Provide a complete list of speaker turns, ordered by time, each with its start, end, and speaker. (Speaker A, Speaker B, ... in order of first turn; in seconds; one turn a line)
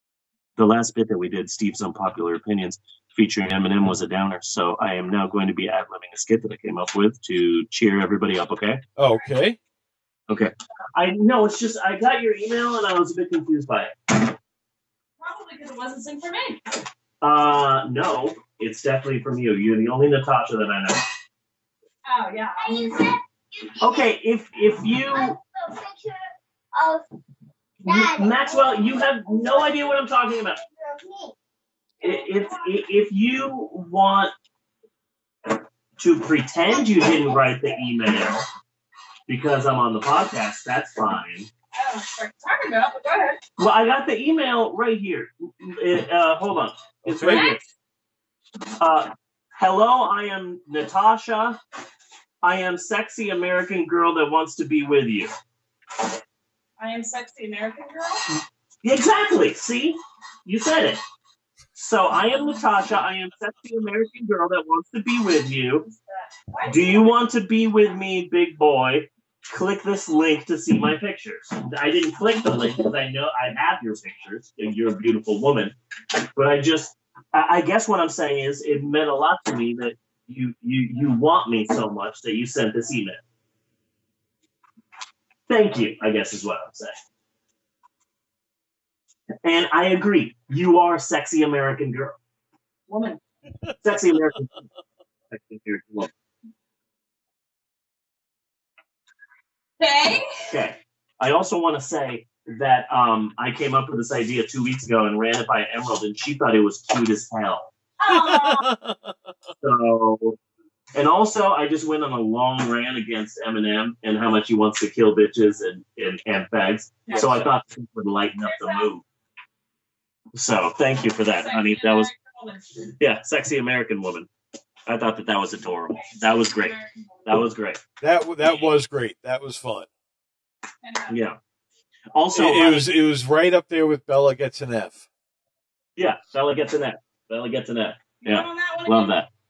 Speaker A: 0.6-8.8
Speaker B: 9.0-9.6
Speaker A: 10.3-13.9
Speaker C: 15.2-16.6
Speaker A: 17.2-21.0
Speaker C: 22.0-23.0
Speaker D: 22.6-23.2
Speaker A: 23.8-25.4
Speaker D: 25.1-27.1
Speaker A: 27.9-30.6
Speaker D: 27.9-31.3
Speaker A: 32.0-34.3
Speaker C: 32.0-32.7
Speaker A: 36.0-38.5
Speaker D: 36.9-37.6
Speaker A: 39.3-41.5
Speaker C: 41.7-43.4
Speaker A: 43.6-47.6
Speaker B: 47.0-47.5
Speaker C: 47.3-47.6
Speaker A: 48.8-51.6
Speaker A: 52.4-55.3
Speaker C: 56.8-58.3
Speaker A: 58.8-61.0
Speaker A: 61.7-65.8
Speaker C: 65.8-67.2
Speaker A: 66.7-75.7
Speaker A: 76.3-83.2
Speaker A: 85.5-86.9
Speaker A: 89.4-92.2
Speaker C: 92.9-93.2
Speaker A: 93.8-94.5
Speaker A: 95.3-96.1
Speaker C: 99.8-100.3
Speaker A: 100.5-107.7
Speaker C: 108.0-108.6
Speaker B: 108.1-109.1
Speaker A: 109.6-110.3
Speaker A: 110.9-119.0
Speaker C: 117.1-117.4
Speaker C: 118.4-118.9
Speaker A: 120.3-122.1
Speaker C: 121.3-122.7
Speaker A: 123.0-124.3
Speaker A: 124.9-127.8
Speaker C: 126.0-127.0
Speaker B: 128.0-129.9
Speaker C: 130.8-131.2
Speaker A: 131.1-131.4
Speaker A: 132.1-132.9
Speaker B: 132.3-135.0
Speaker A: 136.0-139.3
Speaker C: 138.2-139.1